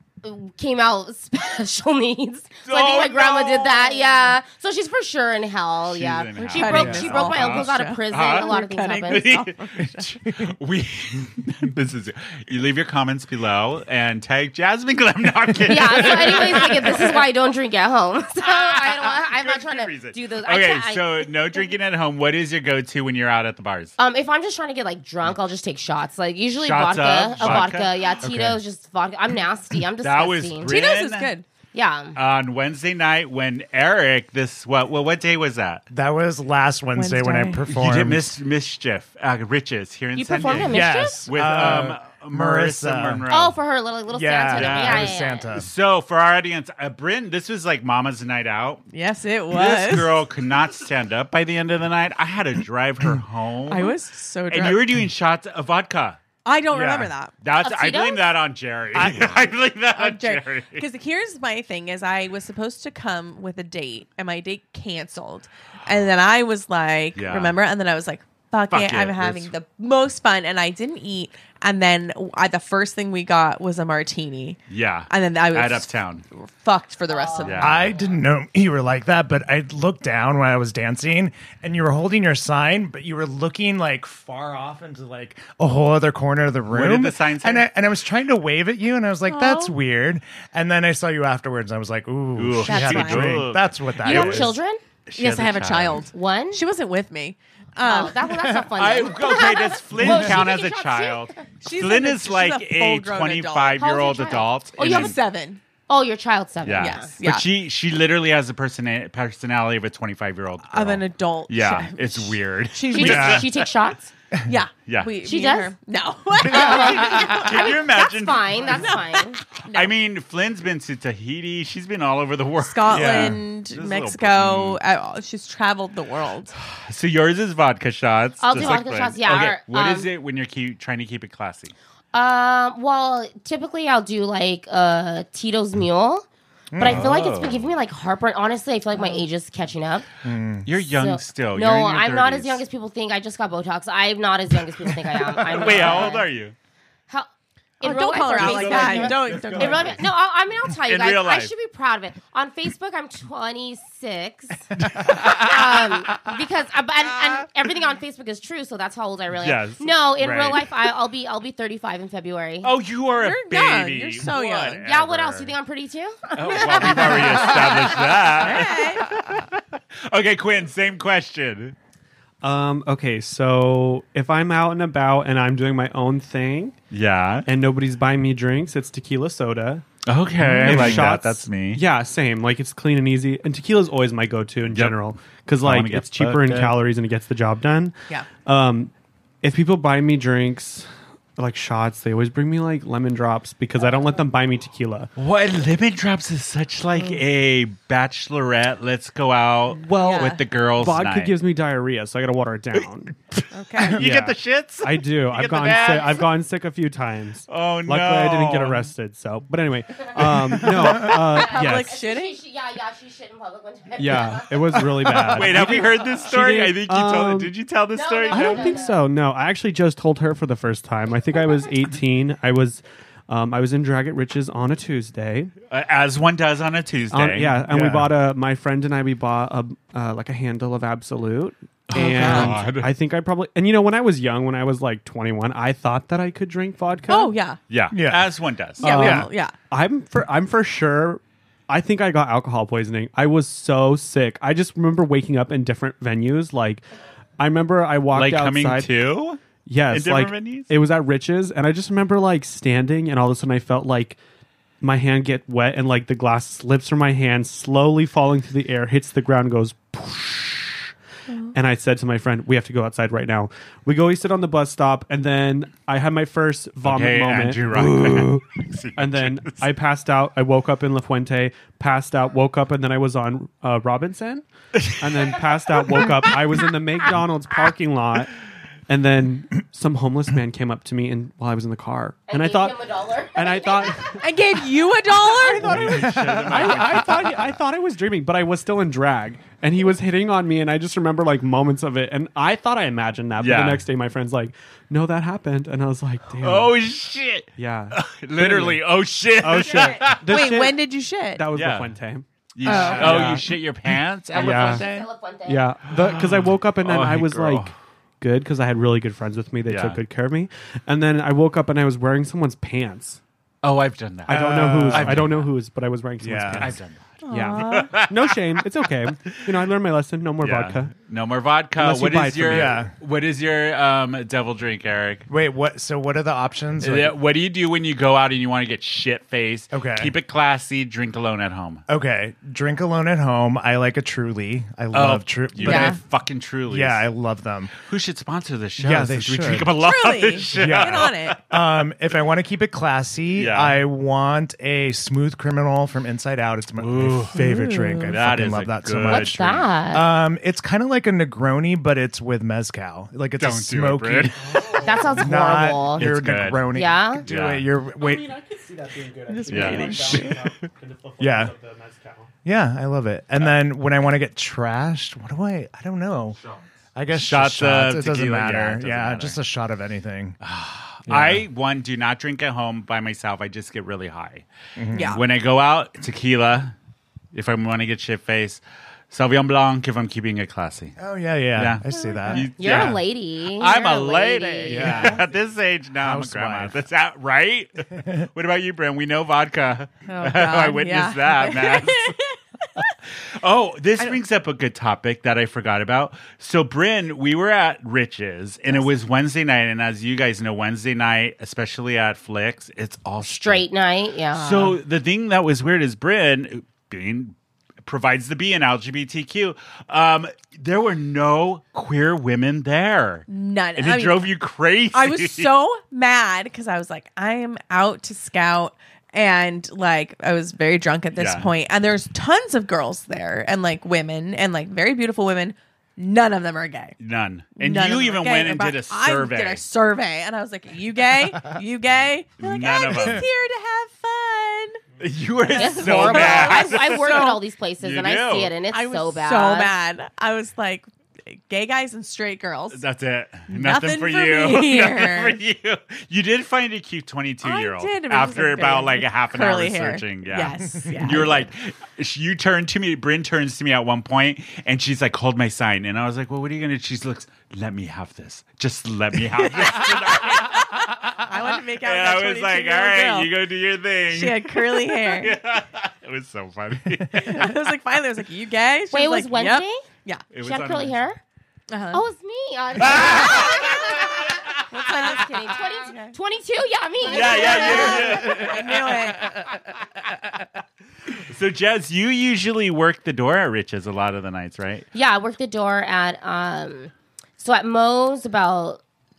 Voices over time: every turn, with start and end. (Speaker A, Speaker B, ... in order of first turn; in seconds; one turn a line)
Speaker A: 0.2-9.3
Speaker B: 2.6-4.3
Speaker B: 5.8-17.3
Speaker C: 6.4-10.1
Speaker A: 15.7-21.3
Speaker B: 18.4-24.0
Speaker A: 24.0-30.8
Speaker B: 26.6-28.2
Speaker D: 27.4-27.7
Speaker D: 28.2-28.6
Speaker B: 30.0-31.3
Speaker C: 30.6-31.5
Speaker A: 31.7-32.2
Speaker B: 32.1-35.8
Speaker D: 35.9-38.3
Speaker C: 37.0-37.6
Speaker B: 37.7-43.6
Speaker A: 40.2-41.2
Speaker D: 40.6-43.2
Speaker A: 43.3-45.5
Speaker D: 44.1-45.7
Speaker B: 44.5-48.9
Speaker C: 48.9-50.2
Speaker B: 49.5-54.0
Speaker C: 53.7-55.0
Speaker B: 54.5-56.2
Speaker C: 56.5-57.3
Speaker D: 56.7-57.1
Speaker B: 57.4-60.9
Speaker A: 57.6-58.3
Speaker C: 59.0-74.6
Speaker B: 67.2-67.6
Speaker B: 68.7-69.5
Speaker B: 74.7-76.2
Speaker C: 75.1-77.8
Speaker A: 77.1-77.6
Speaker B: 77.4-77.9
Speaker D: 77.6-94.5
Speaker B: 86.7-87.7
Speaker C: 89.3-89.7
Speaker B: 92.4-94.6
Speaker C: 92.7-93.5
Speaker A: 94.0-94.8
Speaker B: 95.1-96.1
Speaker C: 95.2-98.3
Speaker A: 96.1-96.7
Speaker A: 97.8-101.4
Speaker D: 98.4-99.0
Speaker B: 98.8-105.2
Speaker D: 100.0-100.4
Speaker C: 101.6-105.6
Speaker A: 103.8-105.2
Speaker A: 105.9-107.1
Speaker B: 106.7-113.7
Speaker C: 106.8-107.5
Speaker C: 110.7-113.4
Speaker A: 112.9-114.1
Speaker D: 113.0-113.4
Speaker C: 114.5-117.5
Speaker B: 114.9-115.1
Speaker A: 115.2-115.8
Speaker B: 116.4-119.0
Speaker A: 116.4-119.4
Speaker C: 118.7-119.9
Speaker B: 119.5-124.8
Speaker C: 122.6-126.5
Speaker D: 122.9-123.4
Speaker B: 126.5-131.8
Speaker A: 128.4-130.1
Speaker A: 132.1-136.2
Speaker D: 136.7-137.1
Speaker A: 136.8-140.1
Speaker B: 136.8-137.7
Speaker C: 138.9-139.2
Speaker D: 140.2-140.7
Speaker B: 140.7-142.6
Speaker A: 140.9-146.3
Speaker B: 145.3-146.6
Speaker A: 147.8-162.7
Speaker C: 147.8-149.9
Speaker E: 148.4-150.0
Speaker B: 150.8-151.5
Speaker B: 154.8-156.2
Speaker D: 154.8-155.2
Speaker B: 159.4-159.9
Speaker D: 160.2-160.6
Speaker B: 162.6-165.6
Speaker C: 163.2-164.8
Speaker A: 164.8-168.3
Speaker B: 166.3-171.8
Speaker C: 168.3-169.1
Speaker E: 172.4-176.8
Speaker B: 176.9-177.5
Speaker E: 177.5-179.8
Speaker B: 180.1-181.8
Speaker D: 180.4-181.1
Speaker E: 180.6-188.9
Speaker B: 184.7-185.0
Speaker B: 185.6-186.8
Speaker E: 189.4-195.1
Speaker B: 195.2-201.3
Speaker C: 197.0-197.2
Speaker E: 199.8-203.1
Speaker C: 200.0-200.4
Speaker B: 203.3-206.2
Speaker C: 203.5-204.0
Speaker E: 203.9-212.0
Speaker B: 207.5-208.9
Speaker C: 210.8-212.4
Speaker A: 211.3-214.5
Speaker E: 214.0-217.5
Speaker D: 214.7-215.8
Speaker B: 215.3-218.8
Speaker A: 217.9-219.0
Speaker E: 218.3-225.5
Speaker B: 225.7-227.6
Speaker E: 227.1-237.4
Speaker D: 227.7-228.1
Speaker B: 231.9-232.9
Speaker C: 231.9-232.6
Speaker C: 237.1-237.6
Speaker B: 237.7-239.0
Speaker D: 237.9-238.3
Speaker C: 238.8-239.6
Speaker E: 238.8-246.9
Speaker D: 238.9-239.3
Speaker E: 247.4-248.9
Speaker B: 248.1-250.7
Speaker E: 249.7-254.2
Speaker E: 254.8-260.9
Speaker E: 261.5-278.4
Speaker B: 266.8-269.7
Speaker E: 278.9-284.4
Speaker A: 282.3-284.1
Speaker C: 284.2-285.7
Speaker E: 285.1-296.8
Speaker B: 285.6-287.5
Speaker D: 285.8-286.7
Speaker B: 293.4-293.9
Speaker B: 296.4-300.5
Speaker E: 297.6-303.6
Speaker C: 300.1-301.4
Speaker B: 301.5-301.9
Speaker B: 302.6-305.1
Speaker D: 302.7-303.4
Speaker E: 304.3-304.9
Speaker A: 304.3-305.7
Speaker E: 305.5-313.2
Speaker B: 305.9-307.7
Speaker B: 309.7-310.0
Speaker B: 313.6-315.5
Speaker D: 314.3-315.3
Speaker E: 314.3-316.8
Speaker D: 316.2-316.8
Speaker B: 316.6-318.4
Speaker C: 317.2-317.9
Speaker E: 317.3-320.9
Speaker B: 319.2-319.5
Speaker B: 320.4-325.3
Speaker E: 321.8-322.8
Speaker D: 322.5-322.9
Speaker D: 325.3-327.2
Speaker B: 326.8-331.8
Speaker D: 329.7-330.1
Speaker D: 331.9-336.0
Speaker B: 334.9-337.1
Speaker C: 335.6-336.0
Speaker D: 336.7-337.7
Speaker B: 337.8-341.6
Speaker D: 338.8-339.7
Speaker C: 339.7-341.4
Speaker D: 340.5-358.3
Speaker B: 343.3-343.8
Speaker B: 346.8-347.4
Speaker C: 347.4-348.1
Speaker B: 348.1-349.7
Speaker A: 349.1-350.1
Speaker B: 353.4-354.8
Speaker E: 354.4-355.3
Speaker A: 354.8-356.1
Speaker B: 355.9-356.7
Speaker A: 356.7-357.3
Speaker B: 357.3-357.7
Speaker E: 358.0-362.3
Speaker C: 359.3-360.4
Speaker B: 359.5-360.5
Speaker D: 361.2-361.5
Speaker D: 362.4-366.4
Speaker D: 366.9-370.4
Speaker B: 367.1-369.4
Speaker B: 370.4-374.5
Speaker D: 371.1-371.4
Speaker D: 374.8-375.2
Speaker C: 374.9-375.2
Speaker B: 375.1-376.8
Speaker B: 377.3-381.0
Speaker D: 381.0-383.0
Speaker B: 381.6-392.1
Speaker C: 382.0-382.4
Speaker A: 382.6-385.1
Speaker D: 384.7-385.2
Speaker D: 386.0-386.8
Speaker D: 387.9-388.2
Speaker C: 390.1-392.9
Speaker B: 393.4-403.7
Speaker A: 403.2-404.8
Speaker B: 404.3-415.5
Speaker C: 413.3-414.3
Speaker C: 414.9-426.9
Speaker B: 421.2-421.5
Speaker B: 427.0-429.6
Speaker C: 427.6-434.8
Speaker B: 432.4-433.2
Speaker B: 435.0-437.0
Speaker C: 435.5-437.4
Speaker A: 435.5-439.8
Speaker B: 437.8-438.5
Speaker C: 438.7-442.9
Speaker B: 442.7-461.2
Speaker C: 443.5-445.4
Speaker C: 447.4-451.5
Speaker C: 459.4-463.3
Speaker B: 461.8-467.5
Speaker C: 464.1-465.4
Speaker C: 467.1-470.3
Speaker A: 468.9-469.9
Speaker B: 470.3-471.0
Speaker A: 470.4-471.2
Speaker C: 471.7-472.1
Speaker A: 471.9-478.5
Speaker B: 472.8-475.2
Speaker C: 475.9-476.1
Speaker B: 477.0-479.5
Speaker C: 477.1-479.4
Speaker B: 481.1-484.9
Speaker A: 484.9-488.8